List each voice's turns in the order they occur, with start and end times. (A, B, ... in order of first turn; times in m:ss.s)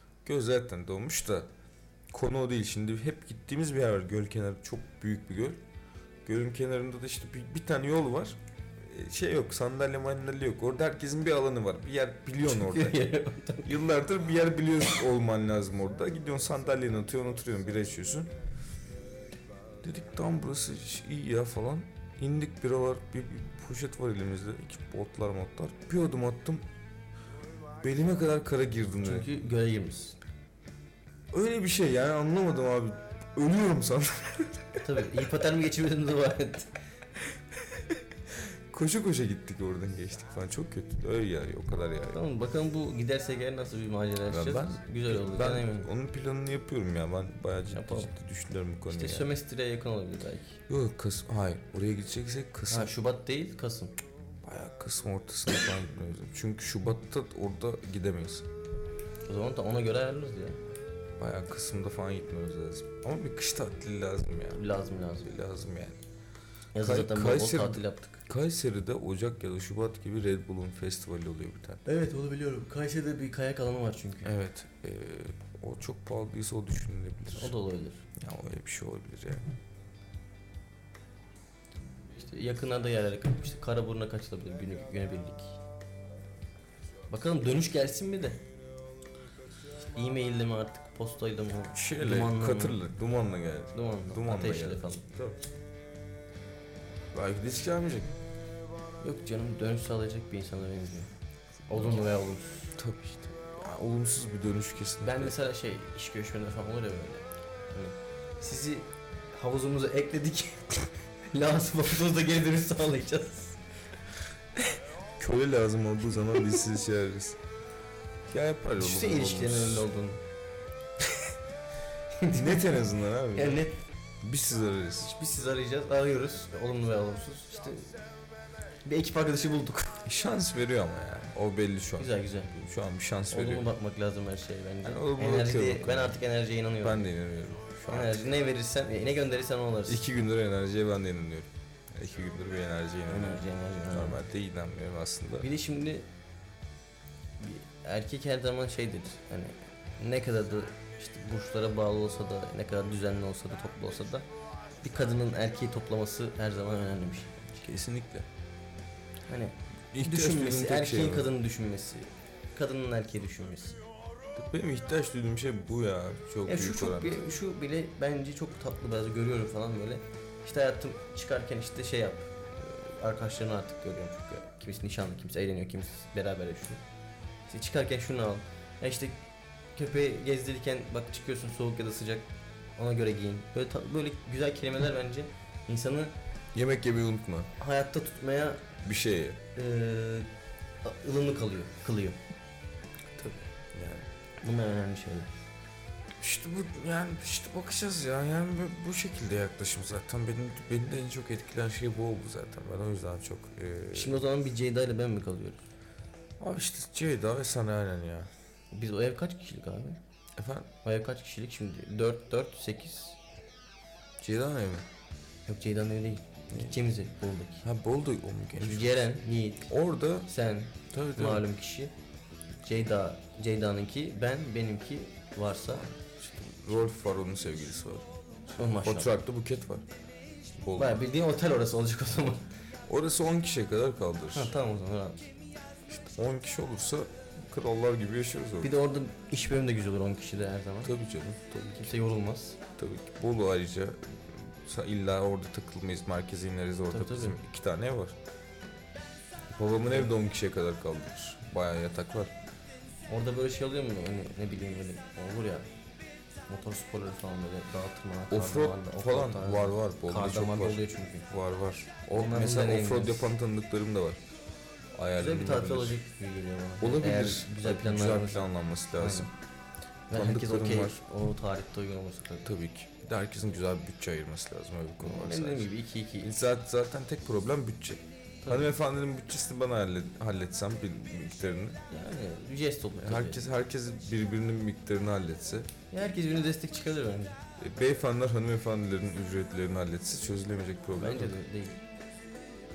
0:00.2-0:01.5 A
0:02.1-0:05.6 A
0:06.2-0:13.0 A
0:12.4-0:13.8 B
0:13.6-0:18.3 A
0:19.8-0:26.6 A
0:27.8-0:29.3 A
0:29.0-0:30.2 B
0:31.3-0:34.8 A
0:34.8-0:36.7 B
0:37.7-0:42.2 A
0:42.1-0:45.9 B
0:44.3-0:49.3 A
0:47.7-0:48.1 B
0:48.9-0:50.6 B
0:50.7-0:52.9 A
0:52.7-0:54.0 B
0:54.4-0:58.5 A
0:59.3-1:00.6 B
1:01.2-1:04.6 A
1:04.5-1:05.3 B
1:05.2-1:06.0 A
1:06.7-1:08.2 B
1:06.8-1:11.8 A
1:11.9-1:14.3 B
1:14.2-1:17.5 A
1:17.4-1:18.1 B
1:18.2-1:19.5 A
1:22.2-1:25.6 B
1:27.1-1:28.4 B
1:29.8-1:32.8 B
1:31.7-1:35.4 A
1:33.7-1:35.1 B
1:37.1-1:38.1 A
1:39.0-1:41.1 B
1:41.7-1:42.7 B
1:42.7-1:45.3 A
1:45.0-1:53.6 B
1:55.2-1:57.4 A
1:58.3-1:59.9 A
1:58.8-2:00.2 B
2:02.2-2:03.8 B
2:02.3-2:03.7 A
2:04.2-2:05.1 A
2:05.0-2:08.0 B
2:08.8-2:10.0 B
2:10.0-2:13.7 A
2:12.0-2:12.5 B
2:13.3-2:17.1 B
2:14.8-2:16.2 A
2:16.8-2:18.2 A
2:17.9-2:20.0 B
2:19.9-2:25.5 A
2:23.1-2:24.2 B
2:25.4-2:26.1 B
2:27.4-2:34.3 B
2:34.8-2:37.6 B
2:37.6-2:38.3 A
2:39.3-2:43.8 B
2:39.9-2:41.3 A
2:44.4-2:47.3 A
2:46.5-2:56.8 B
2:57.5-2:59.2 B
2:59.7-3:06.1 B
3:06.5-3:07.5 A
3:07.6-3:08.6 B
3:08.8-3:09.4 A
3:09.6-3:10.3 B
3:10.8-3:12.2 B
3:13.2-3:14.1 A
3:14.4-3:15.3 B
3:16.2-3:24.2 A
3:23.9-3:25.6 B
3:26.4-3:28.3 A
3:28.7-3:30.0 B
3:30.4-3:30.7 A
3:30.8-3:33.2 B
3:34.2-3:34.9 A
3:35.5-3:37.6 B
3:36.5-3:36.8 A
3:37.6-3:39.1 A
3:38.6-3:39.7 B
3:39.7-3:40.3 A
3:40.3-3:41.9 B
3:40.9-3:41.4 A
3:42.6-3:45.9 B
3:46.0-3:49.9 A
3:48.6-3:49.1 B
3:50.6-3:51.0 A
3:50.8-3:52.5 B
3:52.9-3:54.5 A
3:54.3-3:55.3 B
3:55.9-3:58.8 A
3:58.6-4:01.0 B
4:00.8-4:01.9 A
4:01.8-4:02.6 B
4:02.8-4:08.1 A
4:06.9-4:07.4 B
4:09.5-4:12.3 A
4:09.7-4:10.1 B
4:13.1-4:15.7 B
4:16.5-4:21.3 B
4:18.3-4:24.2 A
4:22.1-4:23.4 B
4:25.0-4:26.0 A
4:25.1-4:29.3 B
4:26.8-4:29.3 A
4:30.1-4:32.5 B
4:30.1-4:31.0 A
4:32.4-4:41.8 A
4:35.0-4:36.3 B
4:38.4-4:38.7 B
4:41.9-4:43.5 B
4:43.0-4:45.7 A
4:45.9-4:47.4 B
4:47.6-4:51.4 A
4:51.0-4:51.8 B